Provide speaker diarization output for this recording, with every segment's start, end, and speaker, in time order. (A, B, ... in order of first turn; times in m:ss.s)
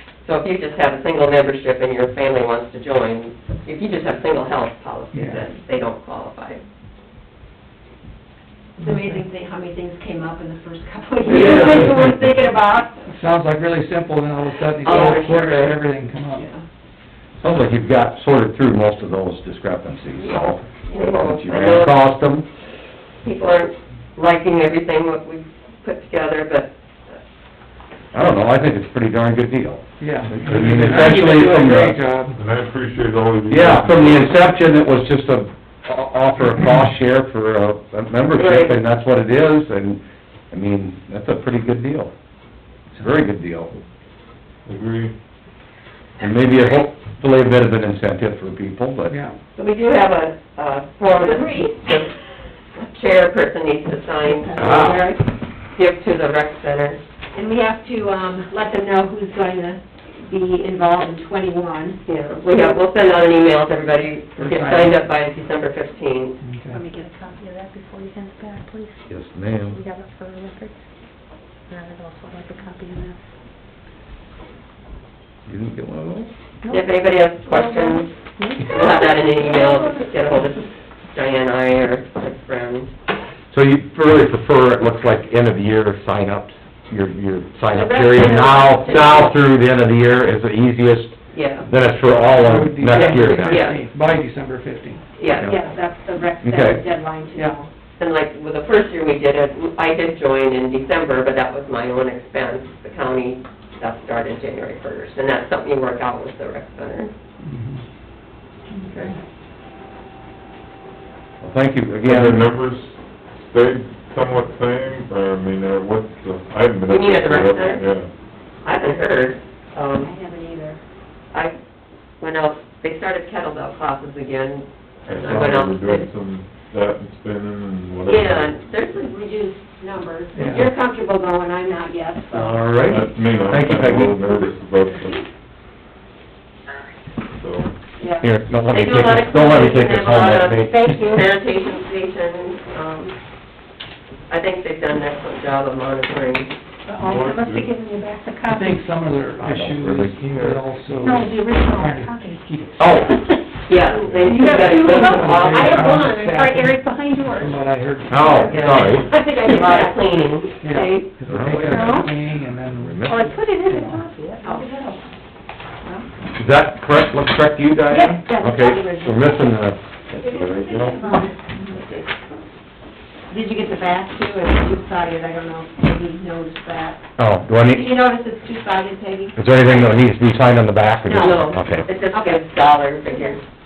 0:00.2-0:06.6 A
0:05.1-0:05.4 B
0:08.8-0:13.1 C
0:08.8-0:09.2 B
0:11.2-0:12.0 A
0:11.3-0:12.0 B
0:13.1-0:16.5 B
0:14.8-0:15.8 A
0:16.3-0:16.6 C
0:17.4-0:22.5 D
0:20.2-0:22.0 A
0:21.5-0:21.8 E
0:23.2-0:27.2 A
0:28.1-0:32.0 D
0:30.0-0:32.4 B
0:32.3-0:34.4 E
0:33.5-0:42.1 D
0:38.3-0:38.8 A
0:43.0-0:43.7 D
0:44.6-0:45.1 E
0:46.2-0:49.2 D
0:49.1-0:49.4 B
0:49.5-0:52.1 A
0:51.0-0:51.8 C
0:52.8-0:55.0 A
0:54.2-0:55.2 C
0:54.5-0:55.1 D
0:55.7-0:57.0 A
0:57.3-1:02.0 C
1:02.0-1:06.4 A
1:04.4-1:05.0 B
1:06.4-1:06.8 B
1:06.7-1:09.0 F
1:09.1-1:09.8 D
1:09.7-1:10.7 F
1:11.7-1:13.2 F
1:15.5-1:16.3 D
1:16.7-1:18.1 A
1:17.5-1:18.7 F
1:18.6-1:22.9 A
1:19.4-1:19.8 F
1:23.5-1:33.6 D
1:27.7-1:29.3 C
1:31.3-1:31.7 A
1:32.3-1:35.0 B
1:32.9-1:33.8 A
1:35.2-1:35.6 A
1:35.4-1:37.7 C
1:36.4-1:36.8 D
1:38.0-1:47.1 A
1:47.4-1:47.8 B
1:48.7-1:49.2 B
1:51.4-1:52.5 D
1:52.0-1:58.1 E
1:56.9-1:57.8 A
1:58.6-2:00.1 A
2:00.0-2:00.8 C
2:02.2-2:06.1 A
2:05.0-2:08.6 E
2:08.1-2:09.1 A
2:09.0-2:12.7 C
2:10.3-2:10.7 B
2:12.3-2:14.5 D
2:12.7-2:15.2 E
2:17.3-2:17.7 E
2:18.0-2:23.2 A
2:18.2-2:21.0 D
2:20.7-2:21.2 C
2:24.3-2:26.5 A
2:26.8-2:28.8 F
2:27.0-2:27.7 E
2:28.5-2:32.8 B
2:29.4-2:30.6 D
2:31.0-2:33.4 F
2:32.8-2:33.2 D
2:33.7-2:36.1 A
2:33.9-2:34.4 E
2:34.2-2:37.6 F
2:34.3-2:36.4 C
2:34.5-2:39.0 B
2:38.1-2:39.1 D
2:38.5-2:41.5 A
2:38.8-2:39.9 C
2:40.6-2:43.0 B
2:41.3-2:42.0 D
2:41.6-2:42.1 F
2:42.7-2:43.4 D
2:43.0-2:44.7 F
2:43.6-2:44.0 B
2:44.4-2:45.0 C
2:46.4-2:51.0 D
2:47.9-2:48.3 F
2:48.2-2:49.4 C
2:50.2-2:51.3 F
2:50.6-2:51.7 C
2:53.3-2:57.0 C
2:57.2-2:57.9 D
2:57.6-3:00.0 C
2:59.4-3:01.9 D
3:01.1-3:01.4 C
3:01.1-3:03.4 A
3:02.1-3:02.4 C